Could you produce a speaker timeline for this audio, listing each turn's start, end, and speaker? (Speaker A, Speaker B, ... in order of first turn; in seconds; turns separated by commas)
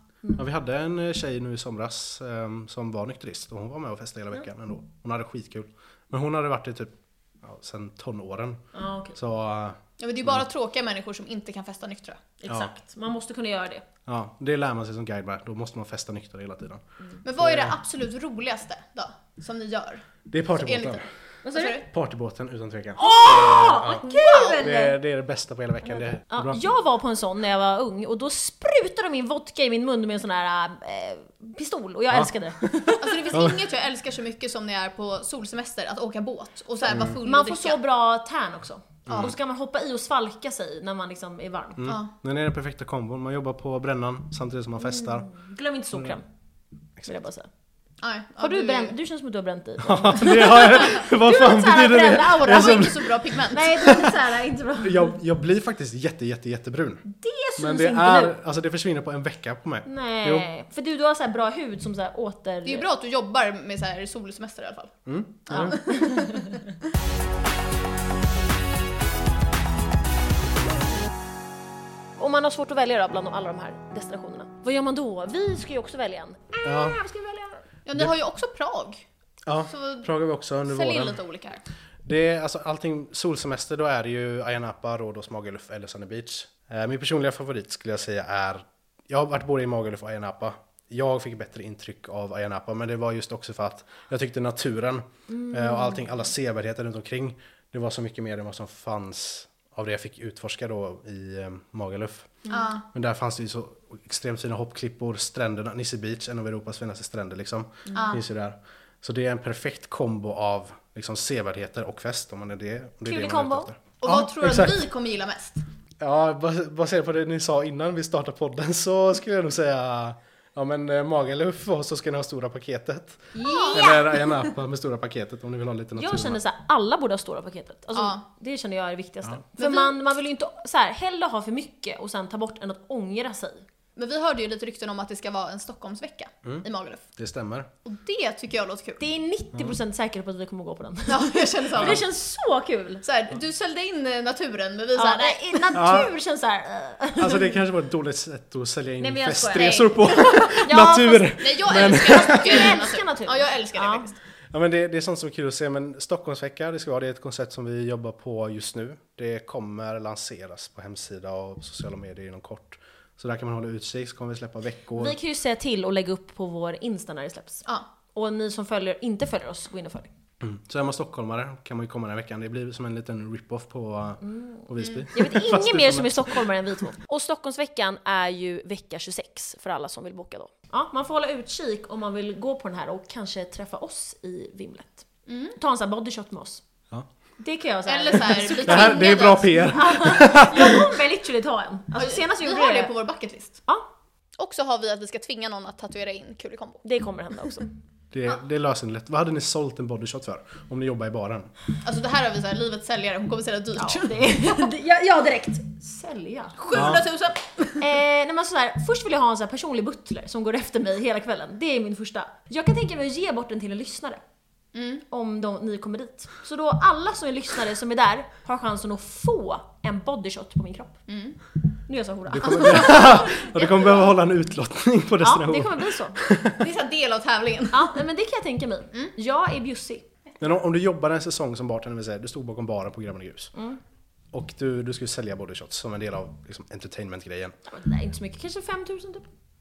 Speaker A: 0.3-8.6, Speaker B: 8.7-9.2, Speaker A: 9.2-10.4, Speaker C: 10.0-12.2, Speaker B: 12.4-13.8, Speaker A: 14.1-16.8, Speaker C: 17.2-21.9, Speaker A: 17.4-17.8, Speaker A: 20.3-21.0, Speaker B: 21.4-21.8, Speaker A: 21.8-26.6, Speaker B: 23.0-25.0, Speaker C: 24.0-24.7, Speaker B: 25.9-33.4, Speaker C: 33.0-37.8, Speaker A: 36.9-37.2, Speaker B: 37.2-41.9, Speaker A: 39.1-39.3, Speaker A: 41.8-45.3, Speaker B: 44.8-46.2, Speaker B: 47.0-47.5, Speaker C: 48.0-49.0, Speaker B: 48.4-55.2, Speaker A: 49.8-54.2, Speaker C: 52.4-53.8, Speaker A: 54.8-57.0, Speaker B: 57.0-58.4, Speaker A: 57.6-60.5, Speaker B: 59.9-62.9, Speaker C: 62.6-65.0, Speaker A: 65.1-65.8, Speaker C: 65.5-66.5, Speaker B: 65.5-66.5, Speaker B: 72.2-77.6, Speaker A: 76.6-77.0, Speaker C: 77.9-79.0, Speaker A: 79.5-81.2, Speaker C: 79.7-80.1, Speaker C: 80.7-81.6, Speaker A: 82.0-114.8, Speaker B: 95.3-96.0, Speaker C: 102.5-102.8, Speaker C: 107.9-108.2, Speaker B: 113.1-113.7, Speaker C: 114.0-115.6, Speaker A: 116.0-126.4, Speaker B: 123.3-124.2, Speaker C: 123.4-124.0, Speaker B: 126.0-133.7, Speaker C: 127.9-128.2, Speaker C: 129.6-129.9, Speaker C: 134.0-137.1, Speaker A: 137.2-137.7, Speaker C: 137.8-139.0, Speaker B: 139.0-143.0, Speaker C: 141.1-142.0, Speaker C: 143.0-145.7, Speaker B: 145.0-147.6, Speaker A: 145.7-146.1, Speaker A: 147.2-152.8, Speaker B: 149.0-154.1, Speaker C: 151.4-154.2, Speaker A: 154.5-165.2, Speaker B: 164.9-170.1, Speaker A: 170.4-176.5, Speaker B: 174.2-186.6, Speaker C: 185.3-185.6, Speaker B: 187.4-192.9, Speaker C: 187.9-189.7, Speaker A: 188.6-190.9, Speaker C: 192.0-193.6, Speaker C: 194.4-196.8, Speaker B: 196.8-197.7, Speaker A: 198.1-201.5, Speaker C: 201.8-204.5, Speaker B: 203.8-207.0, Speaker C: 206.6-207.9, Speaker A: 206.7-207.0, Speaker B: 207.8-214.2, Speaker C: 214.7-215.0, Speaker B: 215.1-221.0, Speaker C: 221.1-221.4, Speaker B: 221.9-223.8, Speaker A: 222.3-226.6, Speaker C: 222.6-223.1, Speaker B: 225.2-226.2, Speaker C: 226.6-228.0, Speaker B: 227.7-230.1, Speaker A: 230.4-233.5, Speaker A: 234.3-237.6, Speaker B: 237.7-239.3